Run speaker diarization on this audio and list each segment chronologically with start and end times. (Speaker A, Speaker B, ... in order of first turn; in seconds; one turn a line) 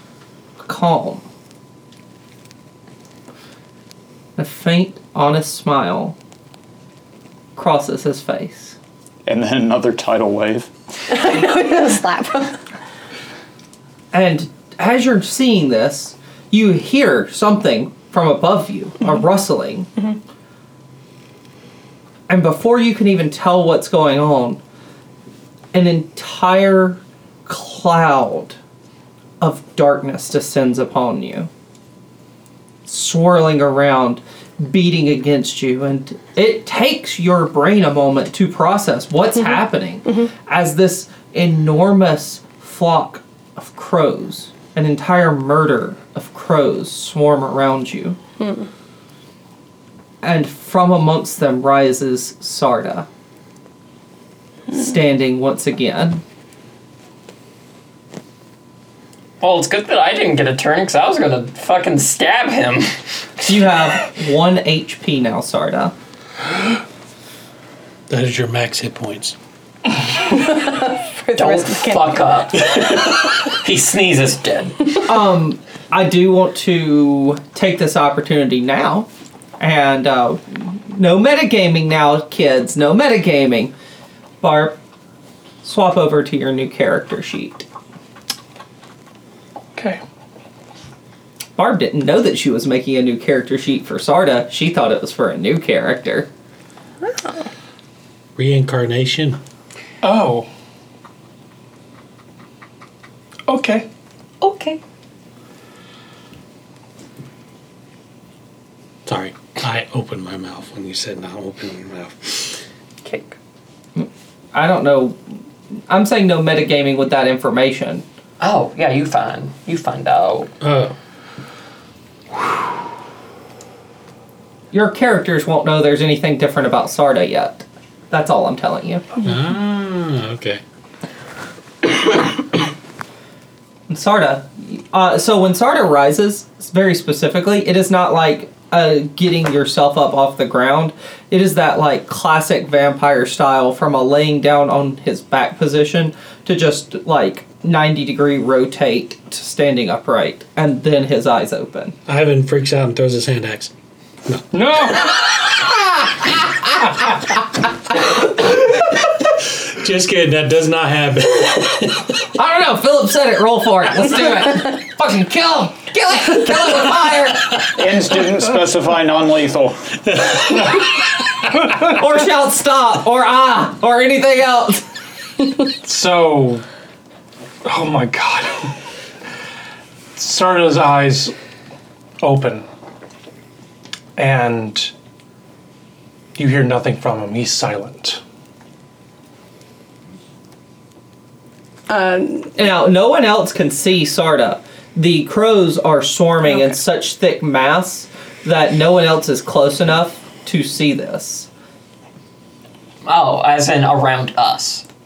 Speaker A: 0.6-1.2
Speaker A: 4.4-6.2
Speaker A: 7.6-8.8
Speaker B: 9.3-10.7
Speaker C: 11.1-12.6
Speaker A: 14.1-19.9
Speaker A: 22.3-24.6
Speaker A: 25.7-28.6
Speaker A: 29.4-31.5
Speaker A: 32.9-48.2
Speaker C: 48.4-48.7
Speaker A: 50.2-53.1
Speaker A: 54.7-56.2
Speaker D: 59.4-63.0
Speaker A: 63.4-65.9
Speaker E: 68.1-69.4
Speaker C: 70.2-72.4
Speaker D: 71.3-74.9
Speaker A: 75.0-83.7
Speaker A: 84.4-84.8
Speaker A: 85.6-87.7
Speaker F: 89.8-90.0
Speaker A: 91.6-96.3
Speaker C: 97.0-97.4
Speaker E: 98.4-99.4
Speaker F: 100.0-100.5
Speaker F: 103.5-103.9
Speaker D: 104.4-104.8
Speaker E: 109.1-112.6
Speaker D: 113.0-113.4
Speaker A: 114.0-115.2
Speaker A: 115.9-118.0
Speaker D: 118.4-120.5
Speaker E: 120.6-120.9
Speaker A: 124.7-129.2
Speaker E: 129.2-130.6
Speaker A: 133.9-151.9
Speaker E: 152.1-153.7
Speaker F: 154.5-155.1
Speaker E: 158.4-162.0
Speaker A: 162.3-167.7
Speaker B: 167.6-170.3
Speaker A: 171.8-174.8
Speaker F: 175.8-176.6
Speaker F: 177.6-178.7
Speaker F: 180.1-181.3
Speaker F: 182.2-182.7
Speaker F: 184.2-184.9
Speaker F: 186.3-188.2
Speaker C: 191.9-192.6
Speaker A: 192.6-201.5
Speaker D: 203.0-204.8